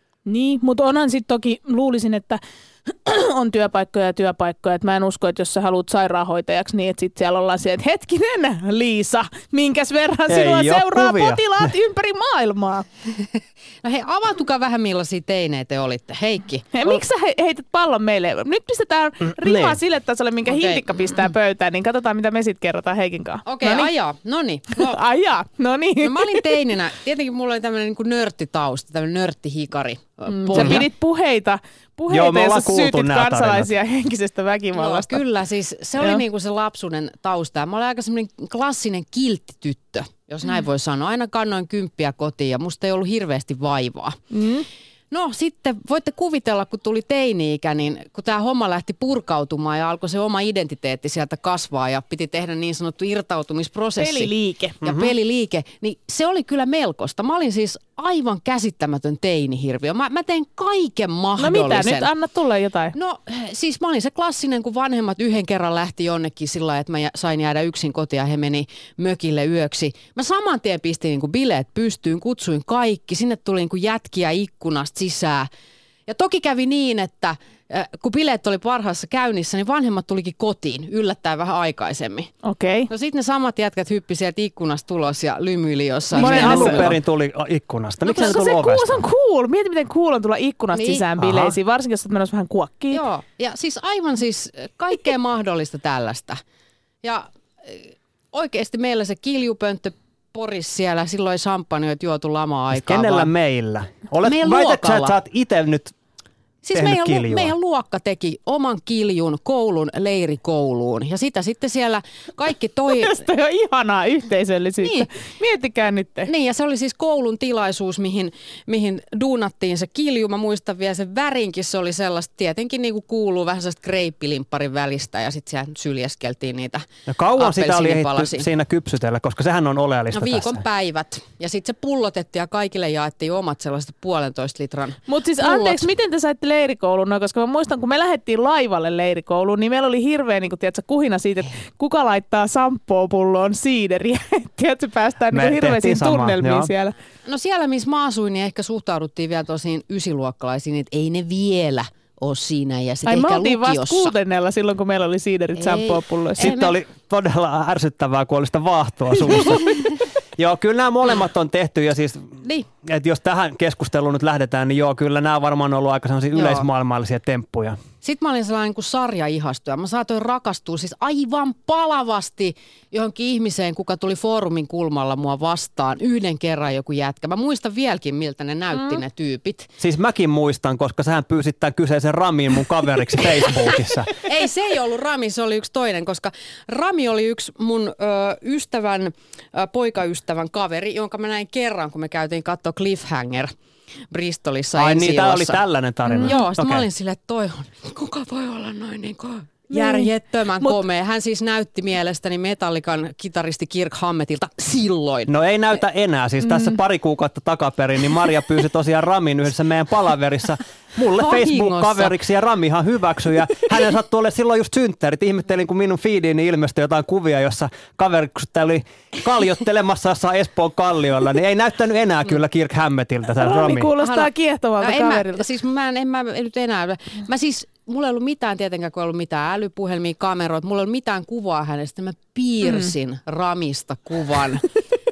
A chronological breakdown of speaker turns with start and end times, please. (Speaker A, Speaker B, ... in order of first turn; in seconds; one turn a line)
Speaker A: 0.3-12.8
Speaker B: 10.3-11.7
Speaker C: 13.1-17.0
Speaker A: 16.7-23.9
Speaker B: 19.4-19.8
Speaker C: 20.5-21.1
Speaker C: 23.5-25.0
Speaker A: 24.8-26.5
Speaker C: 26.0-30.9
Speaker A: 30.3-35.2
Speaker B: 30.5-30.9
Speaker B: 32.1-33.7
Speaker C: 34.7-44.2
Speaker A: 44.3-44.6
Speaker C: 45.1-54.3
Speaker A: 54.0-54.8
Speaker C: 54.8-62.1
Speaker B: 54.8-55.1
Speaker A: 61.4-62.9
Speaker C: 62.9-75.5
Speaker C: 76.1-82.3
Speaker A: 82.4-82.9
Speaker C: 82.9-86.9
Speaker A: 86.1-87.0
Speaker B: 86.2-89.0
Speaker A: 88.0-93.0
Speaker C: 88.1-88.5
Speaker C: 90.7-91.1
Speaker B: 91.2-91.6
Speaker C: 92.9-96.4
Speaker C: 97.0-103.3
Speaker B: 102.7-106.0
Speaker C: 104.2-105.2
Speaker C: 106.6-113.3
Speaker B: 106.7-107.5
Speaker A: 112.9-116.3
Speaker C: 114.8-115.1
Speaker C: 116.3-128.5
Speaker B: 127.1-130.6
Speaker C: 130.1-135.9
Speaker A: 135.1-146.9
Speaker B: 145.3-146.7
Speaker C: 147.3-154.1
Speaker A: 153.1-156.5
Speaker C: 155.6-156.7
Speaker B: 156.4-159.8
Speaker B: 160.4-167.8
Speaker C: 162.4-162.7
Speaker C: 166.3-166.7
Speaker C: 168.0-179.7
Speaker B: 179.8-184.1
Speaker C: 184.2-193.5
Speaker C: 194.1-195.6
Speaker B: 194.8-196.8
Speaker A: 196.1-196.4
Speaker C: 196.2-205.3
Speaker A: 199.7-200.8
Speaker B: 205.3-224.0
Speaker A: 206.4-206.8
Speaker C: 211.2-212.2
Speaker A: 223.4-225.4
Speaker C: 224.0-234.7
Speaker A: 232.7-232.9